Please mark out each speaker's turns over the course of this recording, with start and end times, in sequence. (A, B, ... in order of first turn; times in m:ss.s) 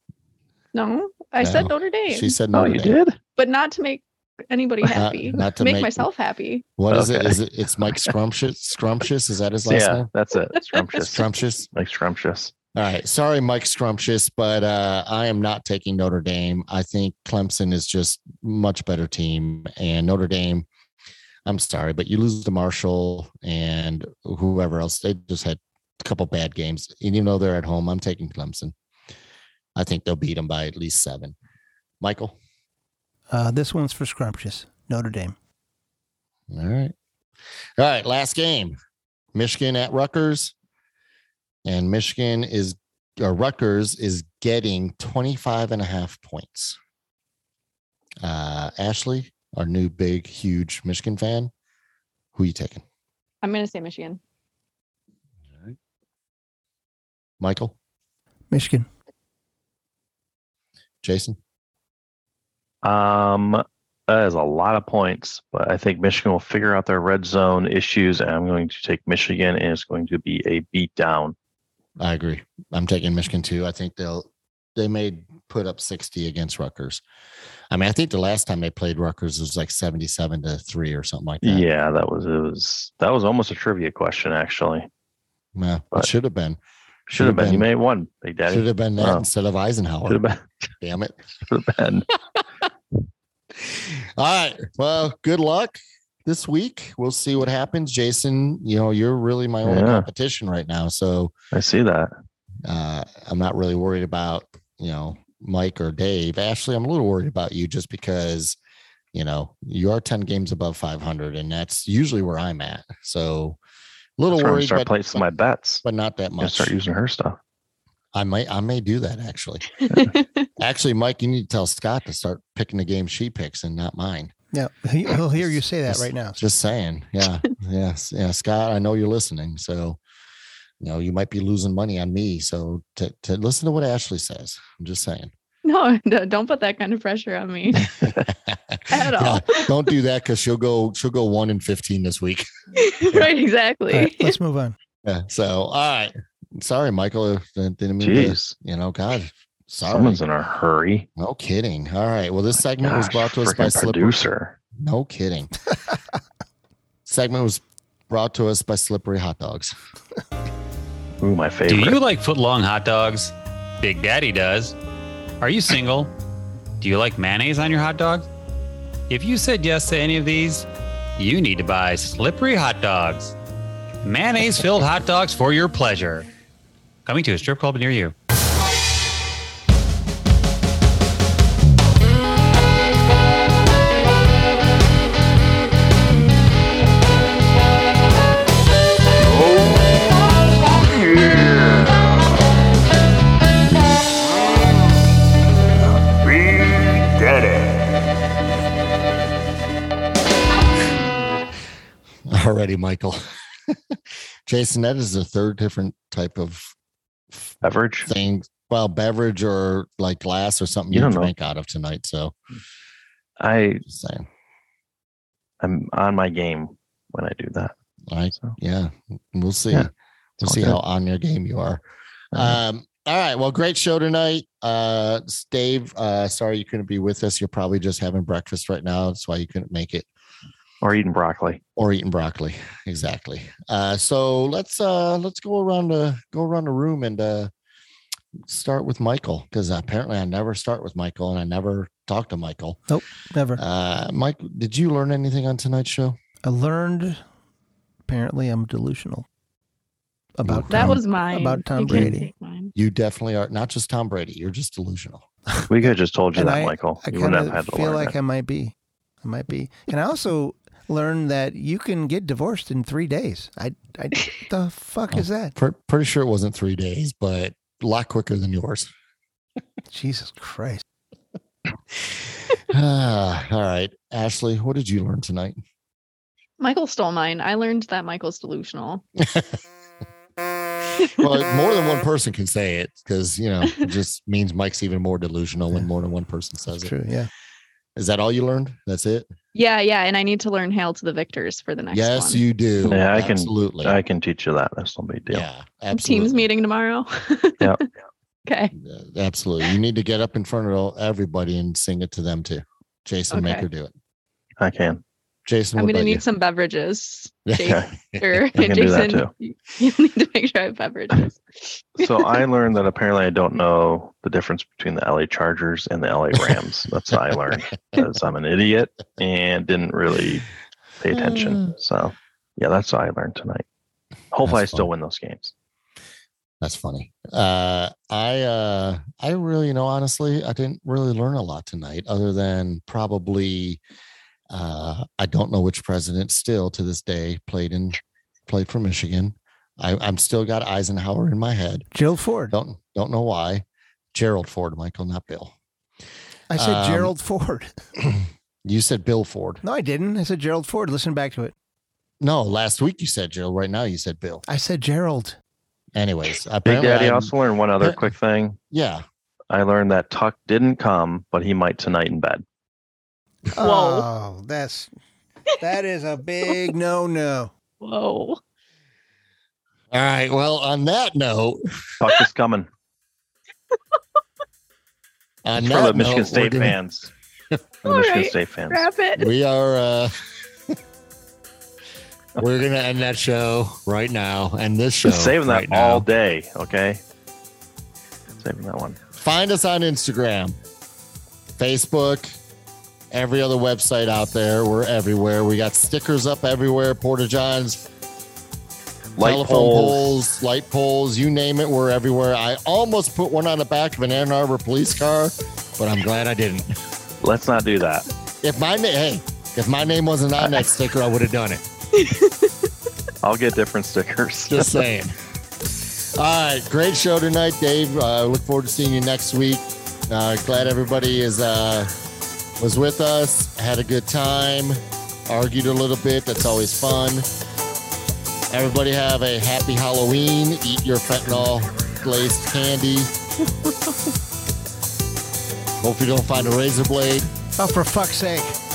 0:00.7-0:02.3 A
0:01.4-0:03.0 B
0:02.5-0:03.2 C
0:03.4-0:06.6 A
0:04.9-0:06.1 B
0:06.8-0:10.1 B
0:06.9-0:07.4 C
0:09.7-0:12.5 C
0:11.0-0:11.7 B
0:12.7-0:20.7 B
0:21.4-0:28.7 B
0:29.8-0:31.3 B
0:32.0-0:32.4 B
0:33.3-0:35.3 D
0:36.5-0:36.9 B
0:37.8-0:38.8 B
0:39.3-0:40.5 B
0:41.6-0:46.8 B
0:48.2-0:51.5 B
0:52.3-0:52.8 B
0:53.4-0:54.2 A
0:57.4-0:57.7 B
0:58.5-0:58.9 D
1:01.0-1:01.4 B
1:02.8-1:11.3 C
1:12.0-1:17.0 B
1:17.7-1:21.6 B
1:21.4-1:24.9 C
1:25.5-1:26.6 B
1:27.1-1:29.2 C
1:27.1-1:27.7 B
1:28.5-1:30.2 B
1:30.1-1:30.4 C
1:30.8-1:31.2 B
1:31.5-1:32.1 C
1:33.6-1:41.3 B
1:39.6-1:40.1 C
1:41.5-1:42.1 C
1:42.6-1:48.6 B
1:49.1-1:53.6 B
1:54.2-1:55.2 B
1:54.3-1:55.8 C
1:55.8-1:56.7 B
1:56.4-1:57.4 C
1:58.1-1:59.8 B
1:59.9-2:00.4 A
2:00.6-2:04.3 B
2:04.5-2:06.4 D
2:05.1-2:10.0 B
2:10.8-2:15.3 B
2:15.6-2:17.9 A
2:17.7-2:22.4 B
2:18.9-2:19.9 A
2:22.8-2:24.4 A
2:23.9-2:24.8 D
2:25.0-2:30.2 B
2:28.0-2:28.5 C
2:29.8-2:31.1 C
2:31.2-2:34.2 B
2:32.8-2:34.6 C
2:34.8-2:35.5 B
2:37.0-2:39.7 B
2:41.2-2:42.0 C
2:41.7-2:44.8 E
2:45.4-2:46.1 E
2:46.8-2:48.3 E
2:49.1-2:53.3 E
2:54.0-2:56.3 E
2:57.0-2:58.1 E
3:16.4-3:17.6 B
3:22.3-3:26.7 B
3:27.6-3:28.1 C
3:28.0-3:32.3 B
3:30.9-3:31.3 C
3:33.4-3:33.8 C
3:33.9-3:34.3 B
3:35.6-3:37.7 C
3:38.1-3:50.1 B
3:39.7-3:40.8 C
3:42.3-3:42.6 C
3:50.8-3:51.6 C
3:51.8-3:57.5 B
3:58.4-4:02.8 B
4:02.9-4:03.6 D
4:03.6-4:06.2 B
4:06.4-4:07.2 D
4:08.0-4:09.2 D
4:10.4-4:12.3 D
4:10.4-4:11.0 B
4:10.7-4:12.7 A
4:12.7-4:15.2 B
4:15.7-4:18.1 C
4:16.3-4:25.5 D
4:25.1-4:28.9 B
4:29.9-4:30.8 D
4:32.7-4:35.6 B
4:36.6-4:39.0 A
4:39.2-4:39.6 B
4:41.0-4:46.9 B
4:46.8-4:47.3 D
4:48.0-4:49.3 B
4:49.5-4:52.4 A
4:51.9-4:54.0 B
4:52.8-4:55.4 C
4:55.3-4:56.5 B
4:55.9-4:57.8 A
4:58.4-4:58.7 A
4:58.8-5:03.9 B
5:03.3-5:03.6 A
5:04.6-5:05.0 C
5:05.4-5:06.2 B
5:05.8-5:12.2 A
5:07.4-5:08.2 B
5:07.6-5:07.9 C
5:08.6-5:09.3 C
5:12.0-5:20.4 C
5:21.0-5:23.6 C
5:21.1-5:21.6 B
5:24.3-5:25.5 C
5:24.4-5:24.9 B
5:26.6-5:33.8 B
5:34.5-5:41.9 B
5:41.9-5:42.5 D
5:42.5-5:45.5 B
5:46.5-5:47.7 D
5:46.5-5:47.1 B
5:48.0-5:49.6 B
5:49.6-5:51.5 D
5:52.2-5:54.4 B
5:54.5-5:55.4 D
5:55.9-5:58.0 B
5:56.6-5:58.6 C
5:58.7-5:59.0 B
5:59.5-6:02.4 C
6:03.5-6:04.9 D
6:03.6-6:04.1 A
6:05.6-6:07.5 D
6:07.8-6:08.4 A
6:09.9-6:11.6 B
6:12.0-6:12.7 C
6:15.4-6:16.8 B
6:15.6-6:17.1 C
6:17.8-6:18.9 C
6:17.8-6:19.3 A
6:19.2-6:20.1 B
6:22.4-6:26.0 B
6:25.0-6:27.0 C
6:28.3-6:29.0 C
6:29.2-6:30.6 B
6:31.6-6:32.4 B
6:33.1-6:37.8 B
6:39.2-6:40.1 C
6:39.2-6:46.7 B
6:47.2-6:48.0 C
6:48.4-6:51.6 B
6:52.0-6:52.5 A
6:53.2-6:54.8 C
6:54.5-6:55.1 B
6:56.1-7:01.9 B
7:02.6-7:07.3 B
7:08.5-7:13.1 B
7:15.8-7:17.3 B
7:17.6-7:18.6 D